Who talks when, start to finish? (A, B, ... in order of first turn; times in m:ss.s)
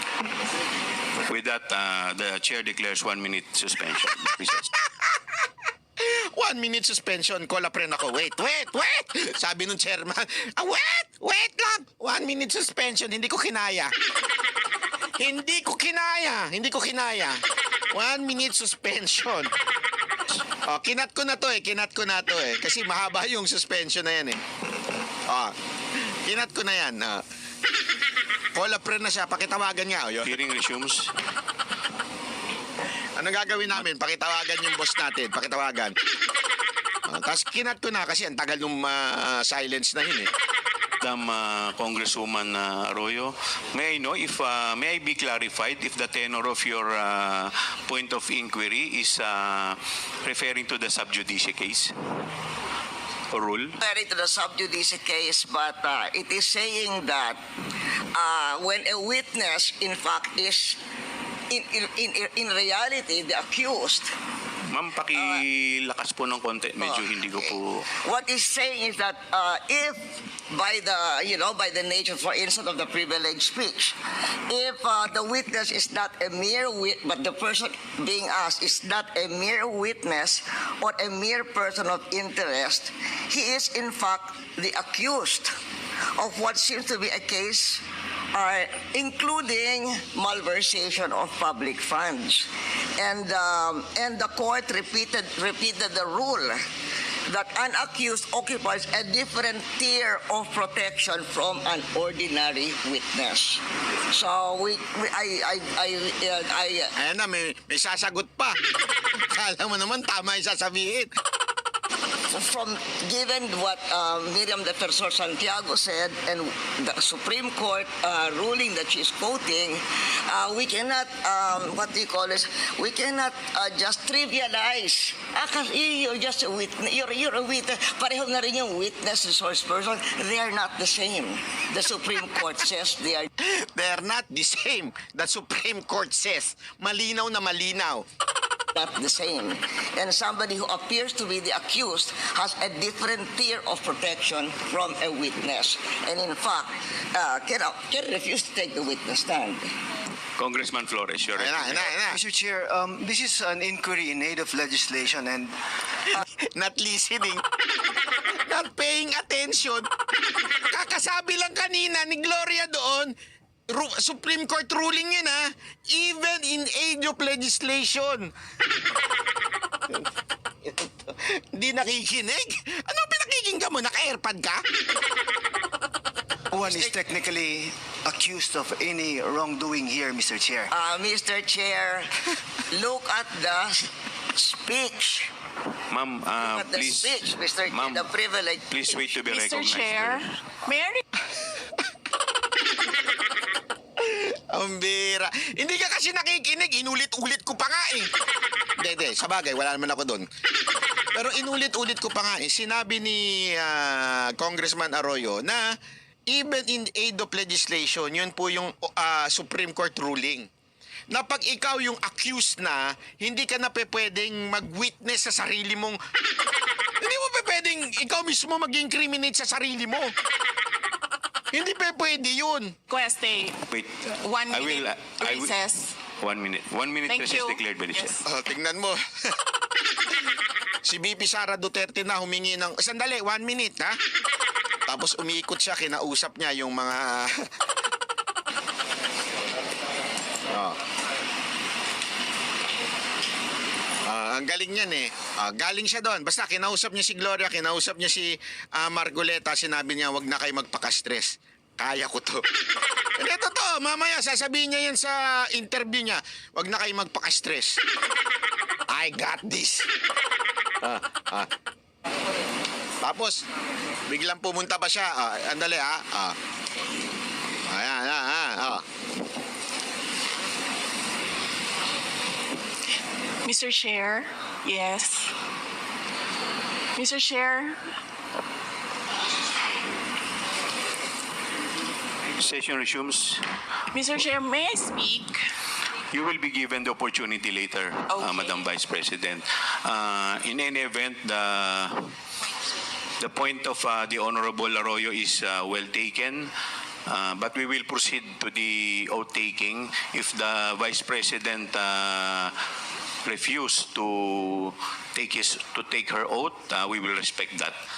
0:01.2-0:04.7 A
0:06.0-0:13.9 B
0:15.2-0:19.5 B
0:20.6-0:24.4 B
0:25.3-0:25.6 B
0:26.2-0:27.2 B
0:28.6-0:30.4 B
0:30.2-0:31.1 A
0:33.2-0:36.0 B
0:37.1-0:40.3 B
0:41.0-0:51.9 A
0:53.3-0:53.8 A
0:53.8-0:57.4 C
0:58.1-1:00.8 C
1:01.5-1:04.1 C
1:04.7-1:07.9 A
1:06.8-1:14.0 C
1:14.5-1:25.5 C
1:26.2-1:27.8 C
1:28.3-1:36.6 C
1:37.3-1:46.9 C
1:47.0-1:48.6 B
1:49.3-1:51.1 B
1:52.3-2:13.3 C
2:13.5-2:18.1 B
2:18.7-2:29.7 C
2:30.4-2:31.9 A
2:31.4-2:32.2 B
2:31.9-2:35.5 D
2:36.1-2:37.4 B
2:38.4-2:39.9 B
2:40.7-2:43.1 B
2:43.7-2:48.3 B
2:50.7-2:54.6 B
2:56.5-3:00.7 D
3:00.7-3:05.3 C
3:05.9-3:08.2 A
3:06.4-3:09.2 C
3:08.7-3:10.2 A
3:09.3-3:11.0 E
3:14.0-3:18.1 B
3:18.8-3:20.3 B
3:21.1-3:25.8 B
3:26.3-3:30.5 B
3:31.1-3:36.0 B
3:37.0-3:40.2 B
3:41.5-3:42.8 B
3:42.9-3:43.6 E
3:43.7-3:45.6 A
3:44.2-3:46.0 E
3:46.2-3:48.2 A
3:47.1-3:48.2 E
3:48.2-3:49.0 B
3:50.8-3:54.0 B
3:54.9-3:57.4 B
4:00.5-4:00.8 B
4:04.1-4:12.4 B
4:13.2-4:17.8 B
4:18.9-4:19.9 B
4:20.8-4:21.5 B
4:23.0-4:23.4 B
4:24.1-4:26.4 B
4:27.7-4:28.9 B
4:33.4-4:35.4 E
4:37.0-4:37.8 E
4:42.4-4:43.4 A
4:43.9-4:45.4 E
4:46.1-4:52.1 A
4:48.1-4:48.6 E
4:53.2-4:56.5 A
4:57.1-5:02.5 A
5:03.2-5:07.8 A